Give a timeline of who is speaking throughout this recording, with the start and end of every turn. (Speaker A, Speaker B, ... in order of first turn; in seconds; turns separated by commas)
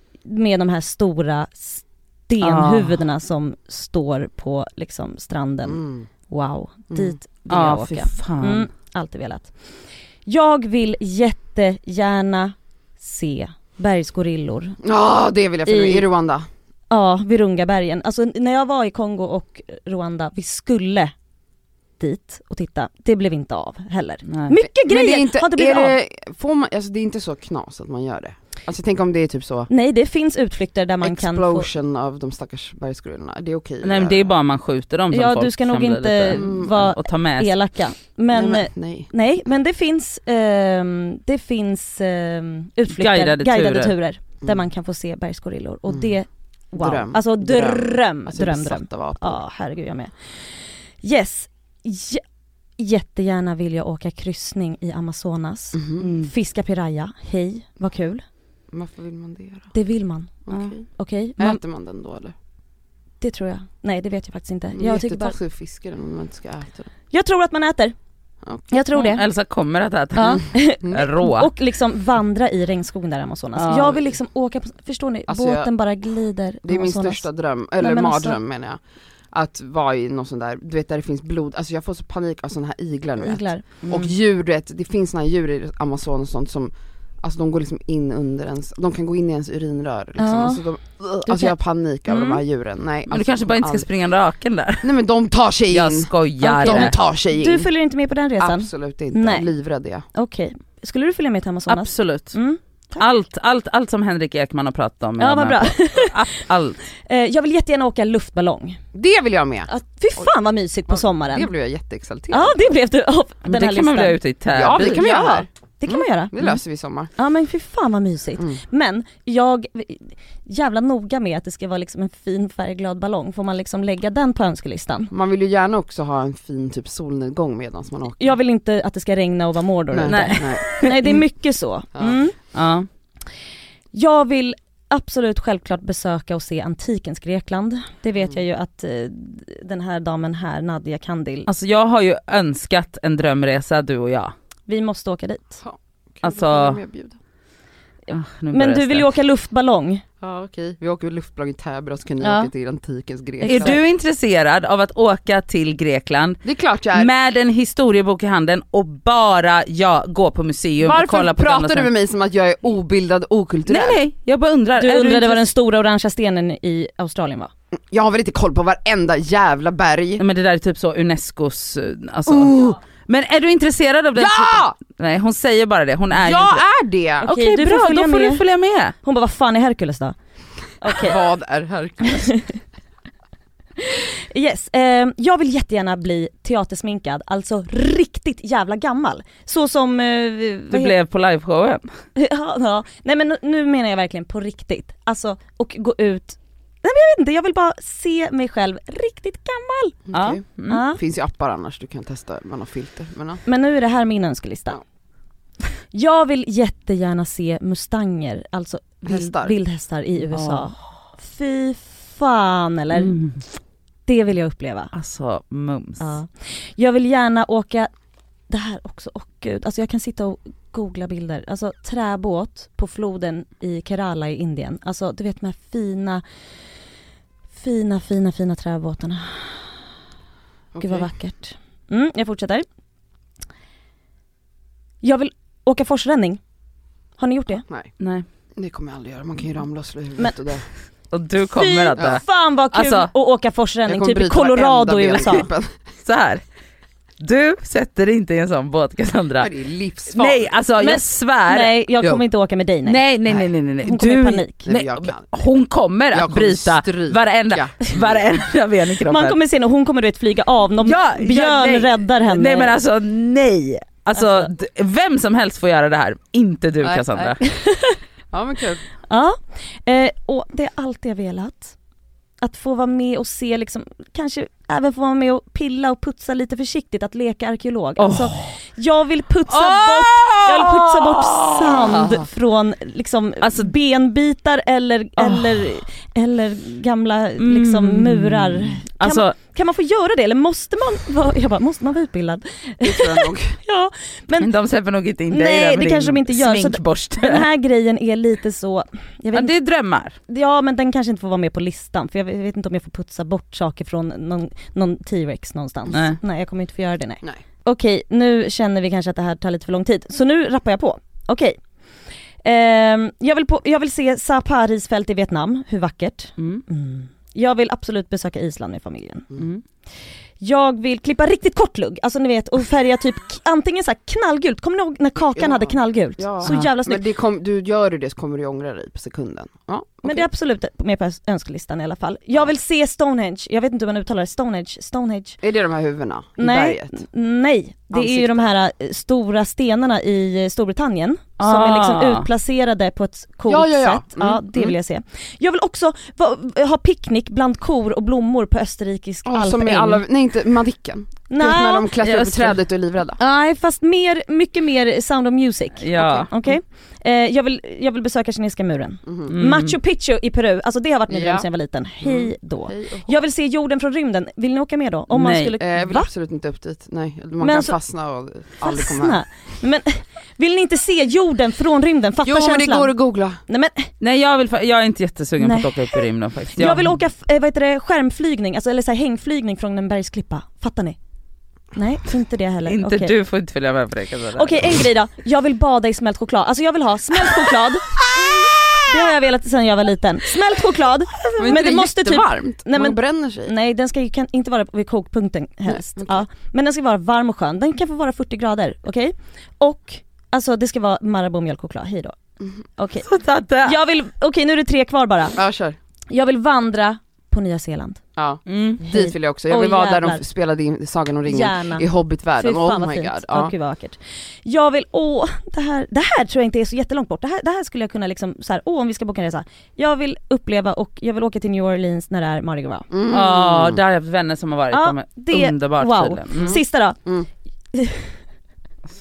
Speaker A: 0.3-9.5, Speaker B: 2.4-3.0, Speaker C: 5.7-6.1, Speaker C: 6.9-7.2, Speaker B: 7.5-8.7, Speaker A: 10.3-14.8, Speaker C: 14.8-16.5, Speaker A: 15.7-16.1, Speaker A: 16.9-21.1, Speaker A: 22.0-26.0, Speaker B: 24.3-24.6, Speaker C: 24.6-29.7, Speaker A: 29.7-31.7, Speaker C: 31.0-34.3, Speaker B: 33.8-37.5, Speaker A: 35.1-50.1, Speaker C: 36.3-36.8, Speaker C: 38.3-39.1, Speaker B: 42.9-44.0, Speaker C: 46.8-49.4, Speaker A: 51.0-52.2, Speaker A: 52.8-58.2, Speaker C: 55.7-56.0, Speaker B: 56.0-56.3, Speaker C: 58.7-59.7, Speaker A: 59.7-61.6, Speaker C: 60.5-60.8, Speaker B: 60.5-60.8, Speaker C: 61.4-62.3, Speaker A: 63.2-65.4, Speaker C: 64.8-66.9, Speaker A: 67.1-68.0, Speaker C: 68.5-68.8, Speaker A: 68.7-69.2, Speaker B: 69.0-71.5, Speaker A: 70.2-77.2, Speaker B: 73.6-74.0, Speaker C: 75.3-75.7, Speaker C: 76.7-78.8, Speaker A: 77.8-78.4, Speaker C: 79.3-93.9, Speaker A: 83.2-83.9, Speaker A: 90.2-90.6, Speaker A: 91.3-91.5, Speaker A: 92.1-92.4, Speaker B: 93.1-94.9, Speaker C: 94.8-97.7, Speaker B: 95.7-96.9, Speaker A: 96.4-99.5, Speaker C: 98.4-100.0, Speaker A: 100.1-103.0, Speaker B: 101.7-102.4, Speaker B: 103.0-106.8, Speaker A: 105.2-106.2, Speaker A: 107.1-108.8, Speaker C: 108.9-110.3, Speaker A: 109.7-111.5, Speaker C: 110.9-112.6, Speaker A: 112.3-114.2, Speaker B: 113.5-115.1, Speaker C: 114.5-117.1, Speaker A: 114.7-116.3, Speaker A: 117.2-125.1, Speaker C: 125.1-128.3, Speaker A: 128.2-132.4, Speaker C: 129.9-130.7, Speaker B: 130.1-131.2, Speaker B: 132.5-132.9, Speaker A: 133.9-141.5, Speaker B: 141.5-144.3, Speaker A: 144.7-145.6, Speaker C: 145.6-147.2, Speaker B: 146.2-146.8, Speaker B: 148.1-149.1, Speaker A: 148.5-150.0, Speaker C: 150.2-153.8, Speaker A: 152.2-152.5, Speaker A: 153.4-153.8, Speaker B: 153.5-161.9, Speaker C: 156.4-157.1, Speaker C: 160.8-164.0, Speaker B: 163.7-165.5, Speaker A: 164.8-167.5, Speaker C: 167.9-170.2, Speaker B: 170.2-176.6, Speaker C: 172.3-172.8, Speaker C: 174.2-174.8, Speaker C: 176.1-177.3, Speaker A: 177.2-178.5, Speaker B: 177.2-178.9, Speaker A: 179.0-180.2, Speaker A: 180.8-181.2, Speaker C: 180.9-182.3, Speaker A: 182.1-182.5, Speaker A: 183.8-190.9, Speaker B: 190.7-191.9, Speaker A: 192.2-200.0, Speaker C: 200.1-200.4, Speaker B: 200.1-200.8, Speaker A: 200.7-201.0, Speaker C: 200.9-203.4, Speaker A: 203.5-204.8, Speaker A: 205.9-213.2, Speaker C: 209.1-209.5, Speaker B: 210.3-210.8, Speaker B: 212.9-213.4, Speaker A: 214.1-214.9, Speaker B: 214.9-216.2, Speaker A: 216.0-217.9, Speaker A: 218.5-226.2, Speaker A: 227.5-229.7, Speaker C: 230.7-231.1, Speaker A: 230.8-232.7, Speaker A: 235.0-236.4, Speaker A: 237.2-237.6, Speaker B: 238.0-238.3, Speaker C: 238.6-240.6, Speaker B: 241.1-243.1, Speaker A: 241.5-245.5, Speaker C: 243.9-245.7, Speaker B: 246.0-246.4, Speaker B: 247.2-249.5, Speaker C: 249.4-250.5, Speaker B: 250.1-252.2, Speaker A: 250.8-253.0, Speaker B: 252.8-259.4, Speaker A: 253.8-254.7, Speaker C: 254.7-255.4, Speaker C: 256.1-258.2, Speaker A: 259.0-262.8, Speaker B: 260.8-267.4, Speaker A: 264.2-264.5, Speaker C: 266.8-267.4, Speaker A: 267.4-268.0, Speaker C: 268.3-268.8, Speaker A: 269.1-271.7, Speaker A: 272.4-294.5, Speaker B: 278.0-278.5, Speaker B: 279.5-282.2, Speaker B: 283.4-283.7, Speaker B: 285.2-285.7, Speaker B: 287.4-289.4, Speaker C: 292.8-293.6, Speaker B: 294.4-297.5, Speaker A: 295.3-299.6, Speaker B: 299.3-300.2, Speaker A: 300.3-311.6, Speaker B: 305.9-306.2, Speaker A: 312.4-319.3, Speaker B: 316.4-316.6, Speaker B: 319.4-319.6, Speaker A: 320.4-327.0, Speaker C: 325.3-330.3, Speaker B: 326.4-326.7, Speaker A: 330.0-335.4, Speaker C: 335.4-337.0, Speaker A: 336.4-350.0, Speaker C: 337.9-338.5, Speaker B: 341.4-342.3, Speaker C: 343.5-344.7, Speaker C: 349.3-353.2, Speaker A: 351.3-351.9, Speaker B: 352.0-352.6, Speaker A: 353.2-366.1, Speaker B: 355.8-356.3, Speaker C: 359.1-359.3, Speaker B: 359.3-359.8, Speaker C: 361.1-361.5, Speaker C: 362.0-363.2, Speaker B: 365.1-365.6, Speaker C: 365.6-369.2, Speaker A: 367.4-367.8, Speaker A: 368.6-372.9, Speaker C: 372.2-373.4, Speaker A: 373.5-373.9, Speaker B: 374.0-377.0, Speaker A: 375.4-381.0, Speaker A: 381.7-383.1, Speaker B: 382.7-384.7, Speaker A: 384.4-402.2, Speaker C: 391.4-393.5, Speaker C: 395.7-396.2, Speaker A: 402.8-403.1, Speaker B: 403.1-403.8, Speaker A: 403.6-405.4, Speaker C: 405.4-405.8, Speaker A: 406.1-408.0, Speaker C: 408.2-413.5, Speaker B: 408.5-408.8, Speaker A: 408.9-410.2, Speaker A: 411.3-411.9, Speaker A: 412.4-422.9, Speaker C: 422.9-423.8, Speaker B: 423.1-426.6, Speaker A: 424.7-427.0, Speaker C: 426.4-427.3, Speaker A: 427.7-428.2